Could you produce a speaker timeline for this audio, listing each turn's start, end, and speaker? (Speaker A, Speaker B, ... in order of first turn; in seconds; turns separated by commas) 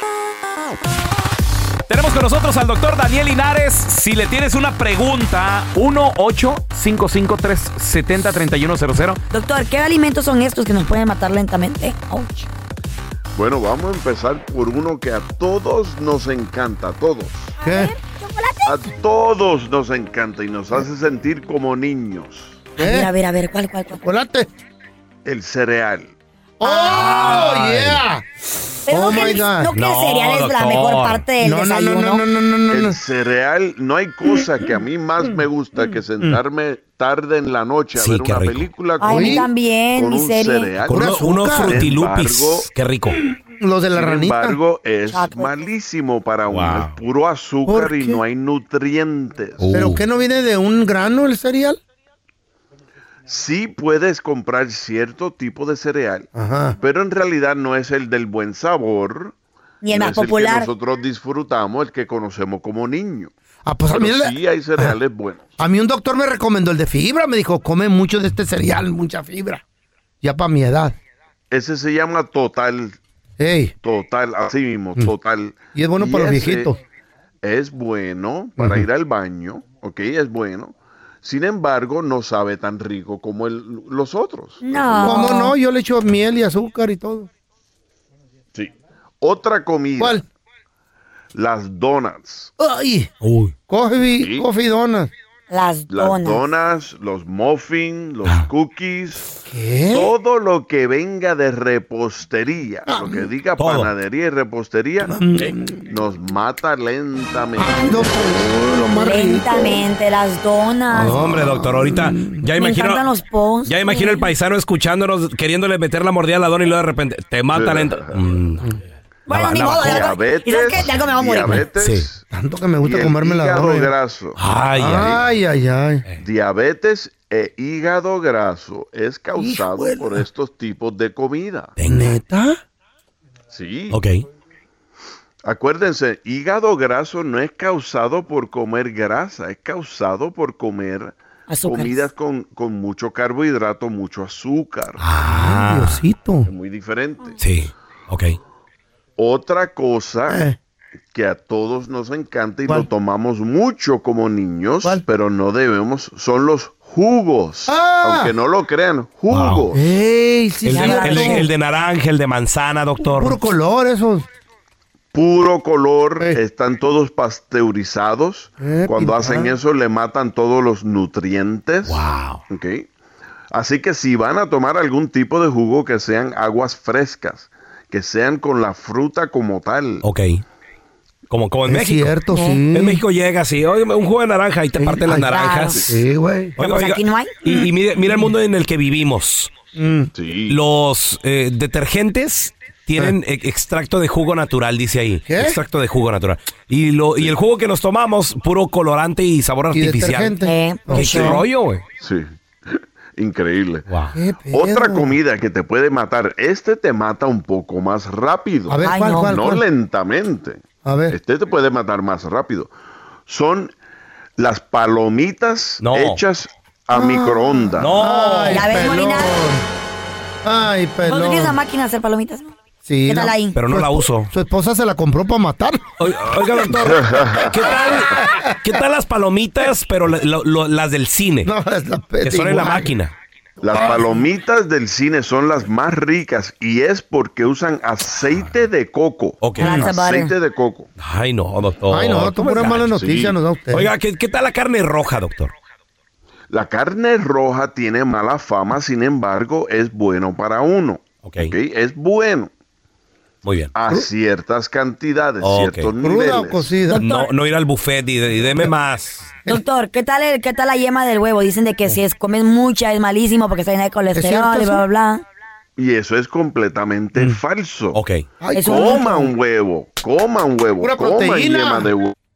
Speaker A: 1.9-9.2, Speaker B: 9.3-12.5, Speaker C: 13.3-17.5, Speaker B: 17.6-18.7, Speaker D: 17.6-17.9, Speaker C: 18.6-22.6, Speaker D: 22.8-23.1, Speaker B: 22.8-24.0, Speaker D: 24.0-24.5, Speaker C: 25.2-26.1, Speaker D: 26.6-28.2, Speaker B: 26.6-27.3, Speaker E: 26.9-28.0, Speaker D: 28.9-29.7, Speaker B: 28.9-32.2, Speaker E: 29.8-31.2, Speaker D: 31.4-33.0, Speaker C: 32.7-42.7, Speaker E: 37.9-38.7, Speaker B: 39.0-40.7, Speaker D: 39.1-39.5, Speaker E: 40.8-43.2, Speaker D: 40.9-41.9, Speaker D: 43.6-44.6, Speaker C: 43.9-49.7, Speaker B: 45.1-45.5, Speaker E: 46.5-47.0, Speaker D: 47.6-48.2, Speaker E: 49.6-50.0, Speaker D: 49.7-51.8, Speaker C: 53.3-59.3, Speaker D: 56.3-56.8, Speaker B: 59.8-60.7, Speaker C: 59.9-63.3, Speaker D: 63.6-64.9, Speaker C: 63.9-65.5, Speaker D: 65.6-69.6, Speaker D: 70.2-71.0, Speaker C: 71.5-73.0, Speaker D: 73.4-73.7, Speaker C: 73.8-76.7, Speaker D: 75.7-76.8, Speaker C: 77.4-85.3, Speaker D: 78.6-78.8, Speaker B: 84.6-85.5, Speaker D: 85.0-87.3, Speaker C: 88.5-90.2, Speaker D: 90.0-90.2, Speaker C: 91.3-92.5, Speaker D: 92.6-93.1, Speaker E: 93.2-93.5, Speaker D: 93.7-95.1, Speaker C: 94.2-94.4, Speaker B: 95.5-96.4, Speaker C: 95.9-99.3, Speaker D: 99.5-100.1, Speaker C: 99.9-105.2, Speaker D: 102.9-103.3, Speaker E: 103.6-103.9, Speaker D: 105.0-105.8, Speaker C: 105.8-108.1, Speaker D: 107.6-109.8, Speaker B: 109.0-111.2, Speaker D: 110.9-112.4, Speaker E: 110.9-113.0, Speaker B: 112.6-114.3, Speaker E: 113.7-118.6, Speaker C: 117.5-118.2, Speaker E: 119.3-120.1, Speaker B: 119.3-121.6, Speaker C: 119.5-122.2, Speaker E: 121.8-122.0, Speaker D: 122.3-123.9, Speaker C: 122.8-125.2, Speaker E: 124.4-125.1, Speaker D: 124.7-126.0, Speaker C: 126.2-131.7, Speaker D: 129.3-130.2, Speaker E: 131.8-132.2, Speaker D: 131.8-132.6, Speaker C: 133.5-134.0, Speaker E: 133.9-134.2, Speaker C: 135.4-145.0, Speaker B: 141.5-142.1, Speaker E: 145.0-146.0, Speaker D: 145.2-146.5, Speaker C: 146.4-147.4, Speaker E: 147.4-148.4, Speaker C: 149.2-150.4, Speaker D: 150.3-150.6, Speaker C: 151.1-159.8, Speaker D: 157.7-158.3, Speaker E: 159.3-159.6, Speaker D: 159.7-161.5, Speaker E: 160.6-163.4, Speaker B: 160.7-161.5, Speaker D: 163.0-164.3, Speaker C: 165.1-172.9, Speaker D: 168.6-169.5, Speaker E: 171.8-172.4, Speaker C: 173.5-180.0, Speaker E: 180.0-180.4, Speaker E: 181.3-182.1, Speaker D: 181.7-183.0, Speaker B: 182.3-182.6, Speaker E: 182.7-185.9, Speaker D: 184.8-185.3, Speaker B: 185.3-185.8, Speaker D: 185.9-186.6, Speaker E: 186.6-189.5, Speaker B: 186.6-187.3, Speaker D: 189.8-190.1, Speaker C: 190.1-190.6, Speaker E: 190.5-200.3, Speaker D: 195.3-195.6, Speaker D: 199.7-201.4, Speaker B: 200.4-201.4, Speaker E: 200.9-201.8, Speaker A: 201.4-201.8, Speaker C: 202.0-203.8, Speaker E: 203.9-204.2, Speaker D: 204.1-205.1, Speaker C: 204.5-212.7, Speaker D: 208.7-209.6, Speaker B: 208.8-209.3, Speaker D: 210.8-211.2, Speaker C: 213.3-213.7, Speaker C: 214.4-218.1, Speaker E: 215.8-216.2, Speaker D: 216.9-219.6, Speaker E: 217.8-218.6, Speaker B: 218.5-219.4, Speaker D: 220.4-221.6, Speaker B: 221.1-222.5, Speaker D: 222.8-228.7, Speaker B: 223.1-223.6, Speaker E: 223.5-224.3, Speaker E: 226.0-231.5, Speaker C: 226.9-227.9, Speaker D: 231.4-232.9, Speaker E: 232.2-233.1, Speaker C: 233.6-240.9, Speaker D: 233.7-234.2, Speaker E: 239.4-239.8, Speaker B: 239.6-240.3, Speaker D: 239.6-239.9, Speaker E: 241.0-242.9, Speaker D: 241.9-243.9, Speaker C: 242.6-243.3, Speaker E: 243.7-245.5, Speaker C: 246.5-252.5, Speaker E: 251.2-251.5, Speaker E: 253.4-253.7, Speaker C: 253.7-256.7, Speaker E: 255.4-255.9, Speaker D: 256.0-257.0, Speaker B: 256.9-257.3, Speaker E: 256.9-259.3, Speaker B: 259.5-265.2, Speaker D: 264.1-264.8, Speaker C: 265.8-268.0, Speaker E: 267.9-268.2, Speaker D: 268.4-269.3, Speaker B: 268.5-269.0, Speaker C: 268.6-272.1, Speaker D: 270.8-271.9